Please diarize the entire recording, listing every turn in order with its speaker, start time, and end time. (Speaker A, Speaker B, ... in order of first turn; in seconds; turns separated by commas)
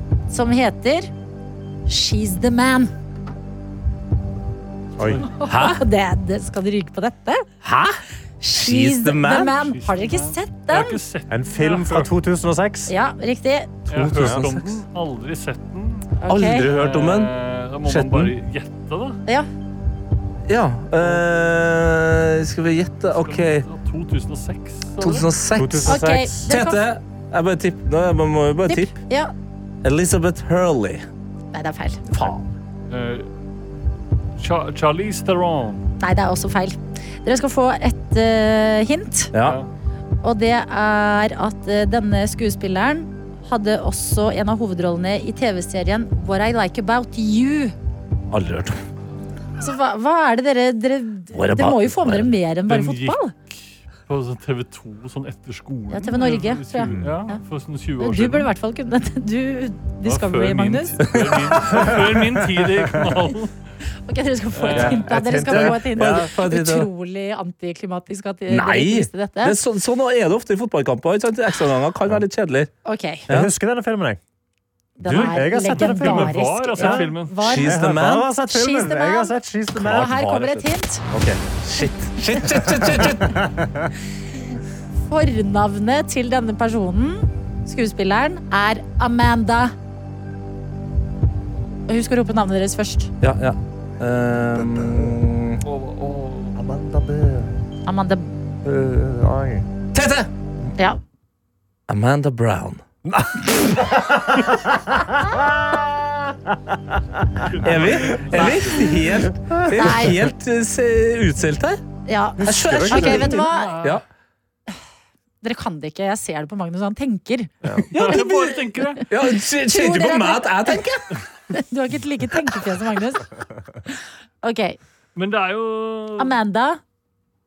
Speaker A: 0.3-1.1, Speaker A: 1.9-2.9, Speaker B: 5.0-5.2, Speaker A: 5.2-7.5, Speaker C: 5.5-5.8, Speaker C: 7.6-8.0, Speaker A: 8.4-11.0, Speaker C: 8.6-9.6, Speaker D: 9.6-12.1, Speaker B: 11.3-12.9, Speaker A: 12.9-13.8, Speaker D: 13.9-19.2, Speaker B: 13.9-14.4, Speaker C: 14.1-14.6, Speaker A: 16.2-16.7, Speaker C: 16.3-17.3, Speaker C: 17.9-18.3, Speaker C: 20.5-23.7, Speaker D: 23.1-25.3, Speaker C: 25.0-29.0, Speaker B: 25.6-26.5, Speaker A: 25.9-26.8, Speaker A: 28.7-29.3, Speaker C: 29.8-31.0, Speaker A: 31.5-32.0, Speaker C: 32.1-32.4, Speaker D: 32.9-33.3, Speaker D: 34.4-35.9, Speaker A: 36.0-39.3, Speaker C: 39.3-39.6, Speaker D: 39.4-39.7, Speaker A: 40.2-47.7, Speaker C: 48.3-48.8, Speaker A: 49.6-53.3, Speaker C: 51.3-52.3, Speaker D: 52.6-58.5, Speaker A: 55.9-57.4, Speaker A: 58.0-61.0, Speaker D: 60.0-63.5, Speaker C: 61.1-61.5, Speaker B: 62.0-62.9, Speaker A: 64.1-69.6, Speaker D: 64.5-65.1, Speaker B: 64.7-66.3, Speaker C: 65.5-66.9, Speaker C: 68.5-72.7, Speaker A: 72.8-73.3, Speaker B: 73.3-74.2, Speaker A: 75.0-77.8, Speaker B: 75.1-80.1, Speaker D: 75.1-77.5, Speaker C: 77.4-78.3, Speaker A: 78.5-81.0, Speaker C: 79.8-83.5, Speaker B: 82.8-83.9, Speaker A: 85.1-89.7, Speaker A: 91.9-93.1, Speaker C: 93.2-95.6, Speaker B: 94.6-95.1, Speaker D: 95.6-96.6, Speaker B: 96.5-97.5, Speaker A: 97.9-98.3, Speaker B: 98.6-99.7, Speaker C: 99.9-100.3, Speaker C: 101.9-102.8, Speaker B: 103.0-106.8, Speaker D: 107.5-108.9, Speaker B: 107.6-110.0, Speaker C: 107.6-111.8, Speaker A: 109.8-110.2, Speaker A: 112.1-113.8, Speaker B: 112.4-113.3, Speaker C: 112.5-114.0, Speaker D: 113.4-114.0, Speaker A: 115.4-118.1, Speaker C: 117.9-121.0, Speaker D: 118.0-119.0, Speaker A: 119.7-120.8, Speaker A: 121.5-123.3, Speaker A: 123.9-124.8, Speaker D: 125.2-126.4, Speaker A: 126.2-126.8